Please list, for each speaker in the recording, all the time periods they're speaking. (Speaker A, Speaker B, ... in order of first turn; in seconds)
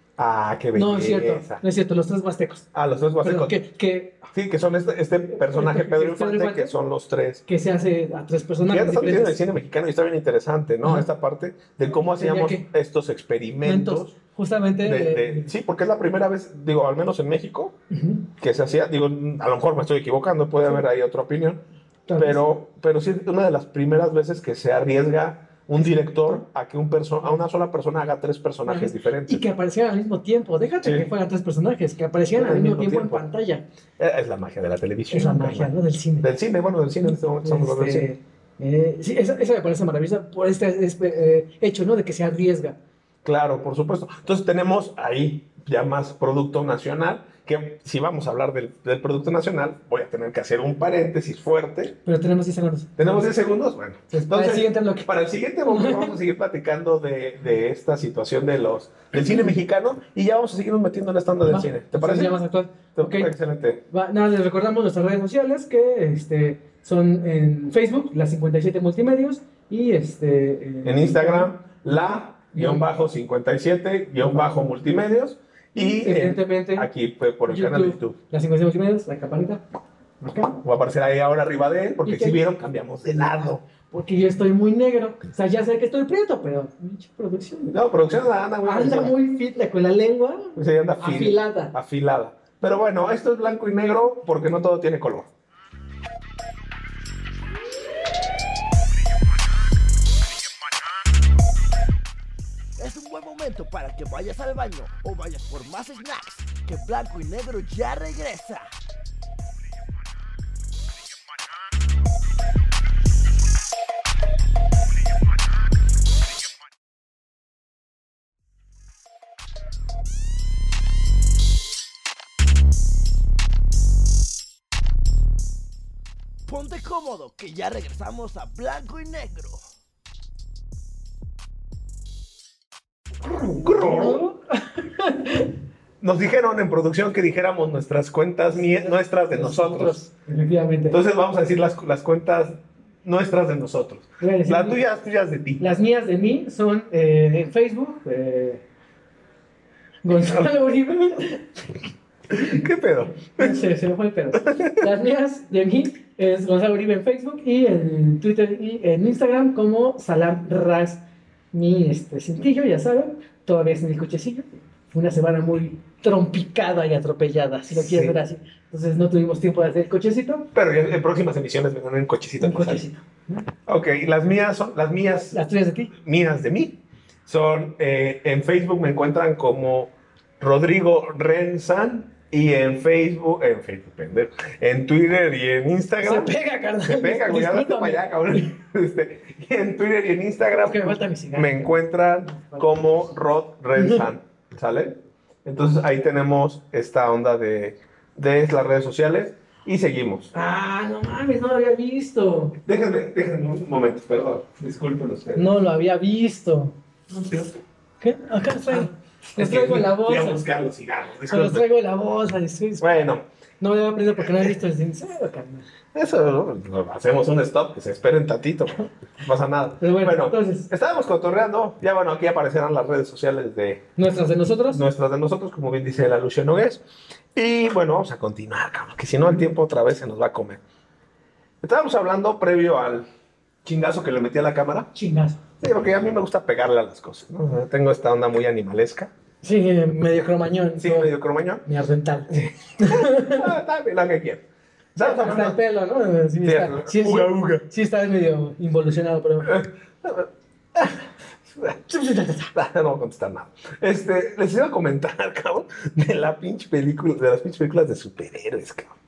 Speaker A: 0.2-1.6, 2.7-3.6, 4.3-7.4, 8.7-14.1, 14.8-17.8, 18.4-21.6, 22.2-29.4, 30.8-31.1, 32.3-33.2, 34.0-38.1, 43.2-52.0, 53.0-62.4, 63.0-63.8, 70.8-78.2, 80.4-83.6, 87.7-89.2, 90.5-95.3, 133.5-134.2, 136.0-140.0, 140.9-145.6, 150.2-150.4, 152.3-153.6, 154.3-154.8, 167.7-168.2, 170.5-172.8, 173.7-175.4, 175.9-200.3, 202.6-205.5, 208.7-211.6, 212.8-213.2, 215.9-223.9, 224.7-226.8, 227.3-230.6, 231.6-233.1, 233.6-234.9, 235.6-239.1, 240.8-241.6, 242.3-244.4, 244.9-245.6, 246.4-247.6, 249.4-251.8, 252.5-258.9
Speaker B: 0.7-2.6, 3.2-4.3, 5.3-6.7, 7.5-9.4, 12.2-12.7, 13.6-15.5, 17.9-18.3, 22.1-22.4, 25.8-26.4, 28.6-33.6, 35.1-36.3, 37.0-42.8, 52.0-53.3, 54.1-55.1, 55.6-56.1, 59.3-59.5, 61.5-63.3, 63.9-72.8, 74.2-74.7, 75.7-76.9, 77.5-79.6, 80.2-80.5, 82.0-82.4, 83.1-87.8, 88.6-91.7, 133.2-135.5, 138.5-141.0, 144.2-144.8, 145.6-148.6, 150.0-151.8, 152.3-152.6, 153.3-170.5, 172.4-173.5, 175.3-175.9, 186.0-188.4, 190.4-192.7, 193.8-194.1, 200.3-202.6, 205.3-207.3, 208.0-210.4, 211.3-213.0, 213.6-215.7, 219.8-220.7, 224.0-224.8, 234.9-235.4, 239.4-241.1, 241.6-243.5, 245.0-249.6, 251.9-252.5
Speaker C: 102.8-108.7, 126.5-129.6